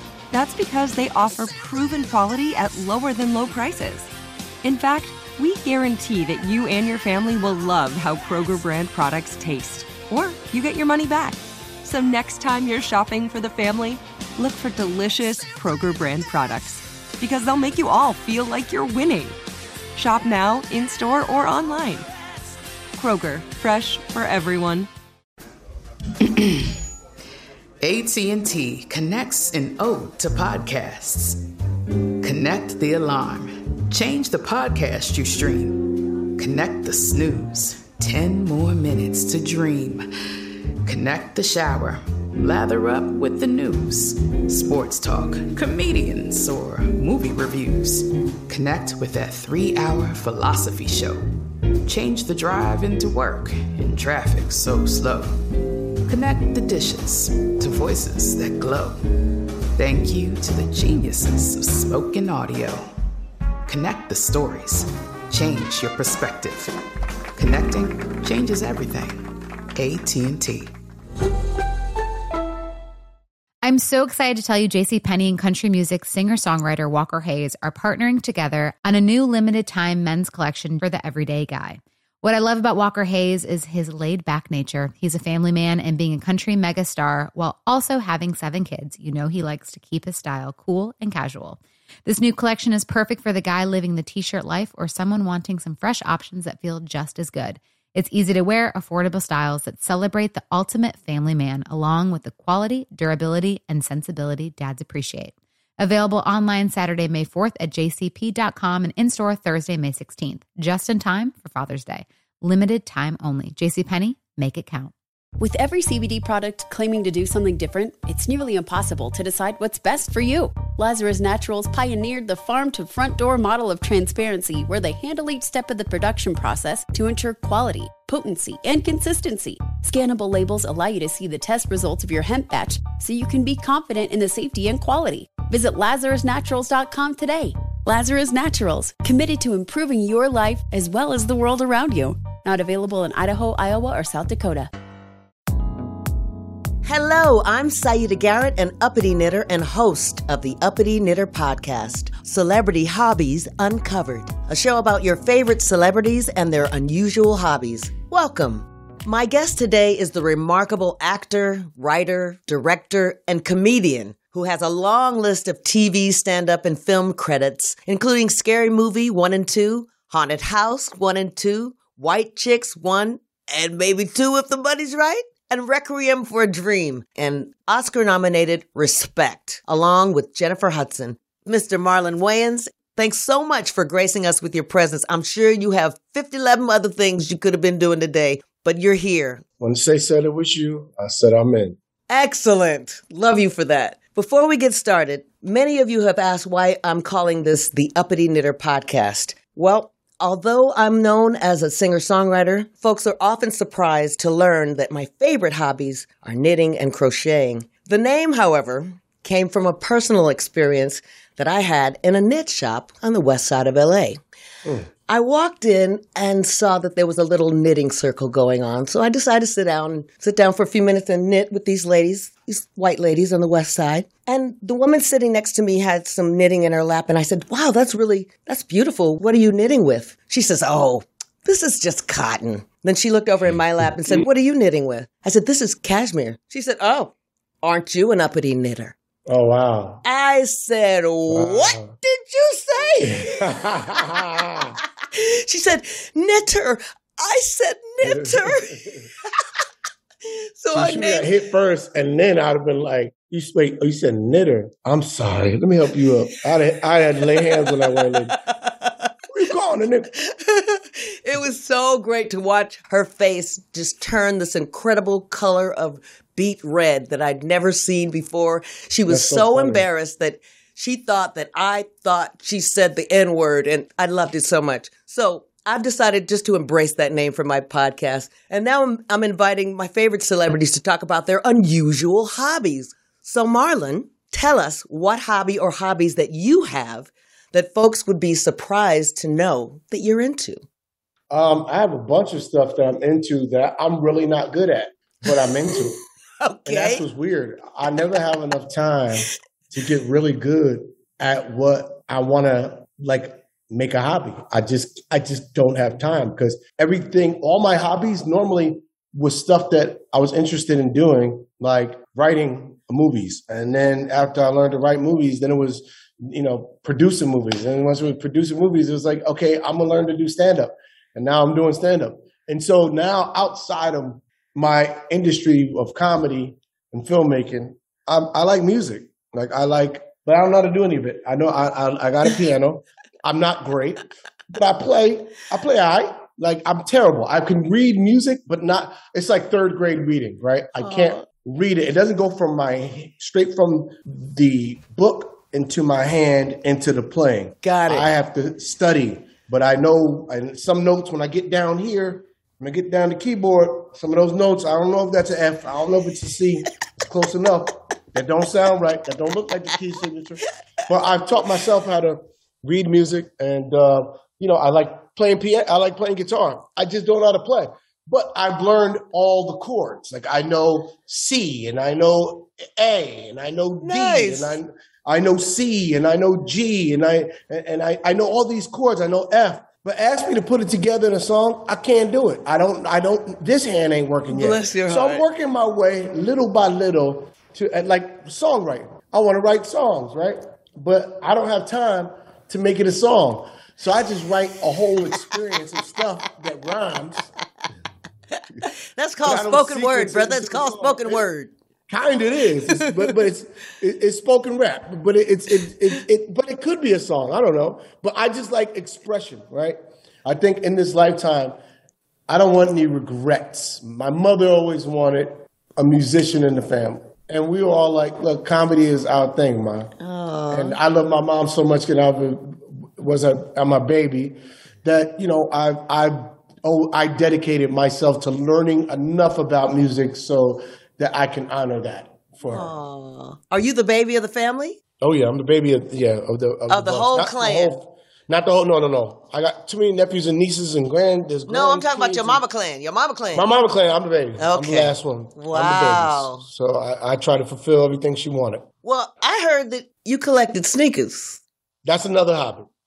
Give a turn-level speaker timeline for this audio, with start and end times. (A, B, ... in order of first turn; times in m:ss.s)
0:00.3-0:04.1 A
0:04.6-0:19.4 A
0:19.9-0:22.1 A
0:22.9-0:24.9 A
0:26.2-0:26.6 B
0:27.8-0:31.4 B
0:32.2-0:40.1 B
0:40.8-0:51.3 B
0:51.8-0:55.4 B
0:56.0-0:59.0 B
0:59.8-1:02.9 B
1:03.6-1:06.7 B
1:07.3-1:10.7 B
1:13.6-1:54.9 C
1:55.4-2:24.7 D
2:26.8-3:09.4 E
3:09.6-3:11.8 F
3:12.1-3:34.2 E
3:35.1-3:58.9 E
3:53.8-3:54.2 F
3:59.3-4:00.0 F
4:00.0-4:04.2 E
4:01.3-4:01.9 F
4:03.0-4:04.8 F
4:05.1-4:08.7 E
4:08.0-4:09.1 F
4:10.6-4:11.3 E
4:10.7-4:18.4 F
4:17.5-4:19.1 E
4:19.3-4:20.1 F
4:20.2-4:50.6 E
4:29.1-4:29.9 F
4:51.3-4:56.0 F
4:55.3-4:55.9 E
4:56.4-4:57.0 E
4:56.6-6:37.3 F
5:40.8-5:41.2 E
5:47.6-5:48.1 E
6:13.8-6:14.6 E
6:24.3-6:25.2 E
6:38.3-6:41.5 E
6:39.2-6:41.3 F
6:41.9-6:51.6 F
6:52.3-6:59.9 F
7:00.0-7:00.8 E
7:00.5-7:12.7 F
7:12.5-7:14.8 E
7:15.0-7:22.4 F
7:16.7-7:17.8 E
7:21.5-7:23.4 E
7:23.3-7:28.7 F
7:24.4-7:26.4 E
7:28.8-7:31.4 E
7:31.8-7:32.7 F